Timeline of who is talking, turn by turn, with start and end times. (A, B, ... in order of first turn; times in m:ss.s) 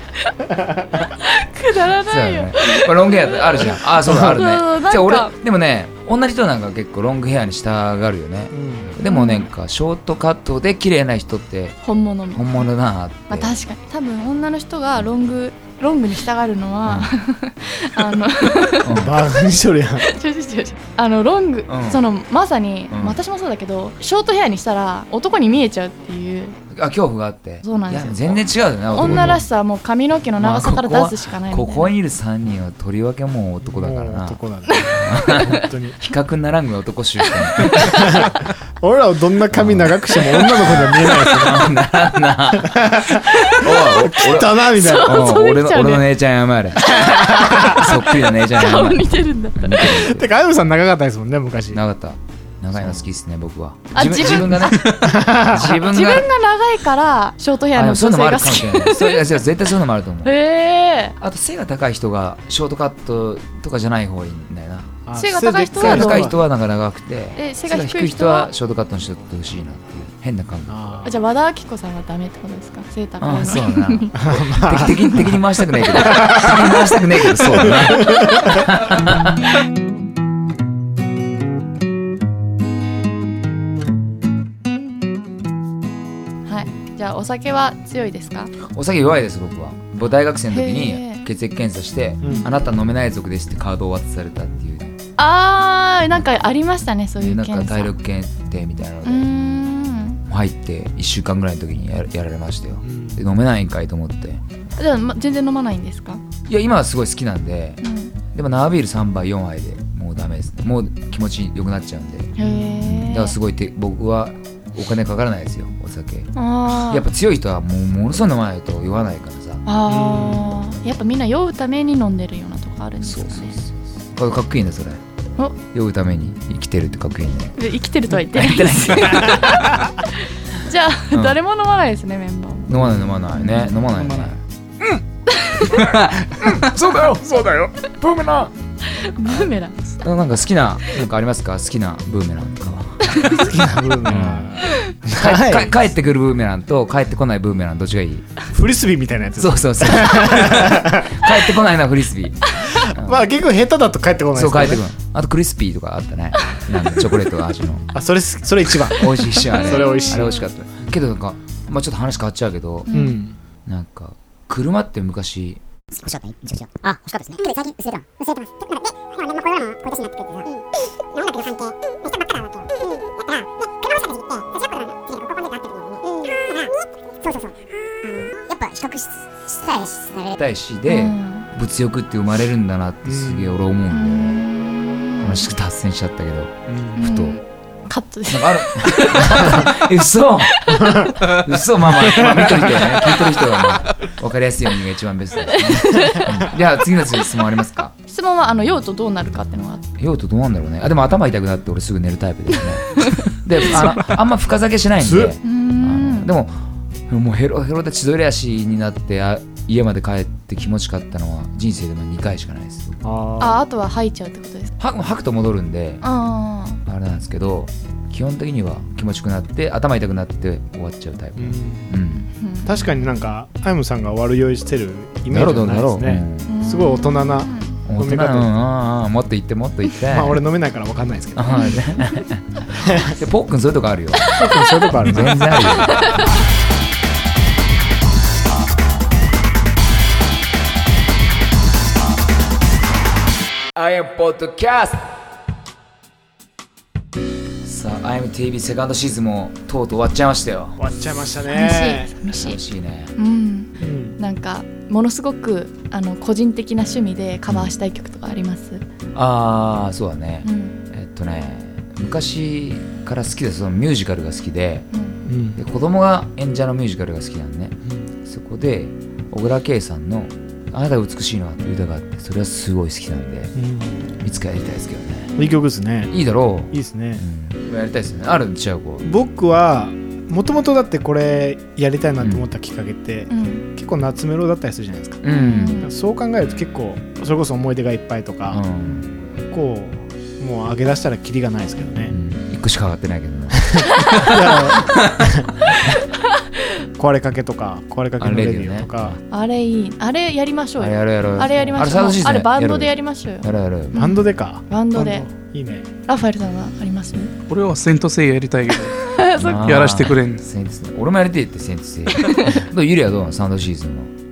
0:01.2-0:05.3 A
0:02.0-0:11.8 B
0:08.5-0:08.9 C
0:09.0-0:09.5 A
0:11.8-0:12.7 A
0:12.3-0:13.5 B
0:13.3-0:19.0 A
0:16.8-0:17.1 B
0:18.8-0:19.2 B
0:18.9-0:20.1 C
0:20.0-0:26.6 A
0:21.7-0:22.0 B
0:22.9-0:23.2 B
0:26.7-0:29.4 B
0:27.6-0:31.9 A
0:29.0-0:29.4 C
0:30.4-0:34.4 B
0:33.6-0:36.0 C
0:34.8-0:35.5 A
0:34.9-0:38.0 B
0:37.2-0:38.2 A
0:37.8-0:41.7 C
0:39.5-0:50.3 B
0:42.6-0:45.2 C
0:44.6-0:46.1 A
0:46.8-0:49.9 A
0:47.0-0:47.9 C
0:49.8-0:51.8 C
0:51.7-0:56.3 B
0:53.9-0:59.4 A
0:54.9-0:55.8 C
0:57.7-1:00.4 B
1:00.2-1:01.2 A
1:01.2-1:05.0 B
1:05.0-1:06.4 C
1:05.2-1:06.4 A
1:05.8-1:11.0 B
1:07.4-1:08.5 A
1:10.7-1:11.1 C
1:11.0-1:14.2 A
1:13.2-1:19.4 B
1:14.2-1:18.6 C
1:26.5-1:28.5 A
1:28.6-1:35.0 B
1:30.5-1:31.2 A
1:32.2-1:32.5 C
1:35.2-1:37.9 A
1:37.2-1:39.3 B
1:39.0-1:40.2 A
1:40.3-1:44.4 B
1:42.8-1:43.2 C
1:44.8-1:46.2 A
1:46.5-1:59.6 B
1:47.8-1:48.1 A
1:52.4-1:53.4 A
1:52.4-1:52.8 C
1:56.3-1:57.0 A
1:59.6-2:03.6 A
1:59.9-2:00.6 C
2:03.0-2:05.0 B
2:05.7-2:07.6 B
2:07.6-2:12.8 A
2:08.1-2:09.8 B
2:11.1-2:11.4 B
2:12.7-2:14.4 B
2:13.3-2:13.7 A
2:13.9-2:14.3 D
2:15.3-2:15.9 A
2:15.7-2:16.0 B
2:16.0-2:17.7 C
2:16.7-2:18.5 B
2:18.8-2:20.0 A
2:20.0-2:23.2 B
2:23.0-2:23.4 A
2:23.2-2:25.7 C
2:24.0-2:24.5 B
2:25.1-2:28.3 B
2:28.5-2:31.3 C
2:29.4-2:33.3 B
2:32.6-2:34.8 C
2:34.3-2:37.9 B
2:37.9-2:40.4 C
2:38.7-2:42.9 B
2:39.5-2:40.3 A
2:42.9-2:43.2 A
2:42.9-2:43.4 C
2:43.6-2:45.6 B
2:45.9-3:00.4 E
3:00.4-3:04.4 B
3:00.9-3:01.5 A
3:03.0-3:03.6 C
3:03.9-3:05.5 A
3:05.2-3:07.4 B
3:06.7-3:06.9 C
3:07.0-3:09.8 A
3:08.3-3:17.9 B
3:10.5-3:11.2 A
3:15.5-3:16.5 A
3:18.1-3:19.9 A
3:20.0-3:33.0 B
3:23.7-3:24.1 D
3:25.0-3:25.4 C
3:25.4-3:26.3 A
3:33.0-3:33.6 C
3:33.4-3:34.7 A
3:34.8-3:36.0 B
3:36.0-3:36.8 A
3:36.8-3:42.3 B
3:41.4-3:41.9 C
3:42.3-3:42.8 A
3:42.6-3:48.6 C
3:45.3-3:46.5 B
3:46.5-3:47.8 A
3:47.8-3:50.4 B
3:50.0-3:51.7 C
3:51.4-3:54.3 B
3:51.5-3:51.8 A
3:52.8-3:53.2 C
3:54.3-3:55.4 C
3:54.4-3:56.3 A
3:54.9-3:56.1 B
4:03.7-4:05.1 B
4:07.6-4:10.8 B
4:10.8-4:12.1 C
4:11.5-4:12.6 A
4:12.3-4:13.1 B
4:13.2-4:18.8 A
4:13.8-4:14.2 C
4:19.1-4:24.9 B
4:20.4-4:20.8 A
4:24.9-4:25.2 A
4:25.2-4:25.6 C
4:25.6-4:33.5 B
4:33.6-4:34.0 C
4:34.2-4:35.3 B
4:35.4-4:36.1 C
4:36.1-4:39.1 B
4:36.7-4:37.2 C
4:39.0-4:45.2 C
4:43.3-4:43.7 A
4:45.2-4:45.8 B
4:45.2-4:45.9 A
4:45.8-4:48.6 C
4:48.5-4:49.1 B
4:49.4-4:52.2 C
4:52.1-4:56.0 B
4:53.7-4:55.6 C
4:56.4-4:56.7 A
4:57.0-4:59.2 C
4:58.2-4:59.2 B
4:59.3-5:05.2 A
5:00.8-5:04.0 B
5:01.5-5:01.8 C
5:03.9-5:05.9 C
5:06.1-5:07.3 A
5:07.5-5:09.0 D
5:08.8-5:09.7 A
5:09.4-5:14.1 B
5:09.6-5:10.4 D
5:12.1-5:12.6 A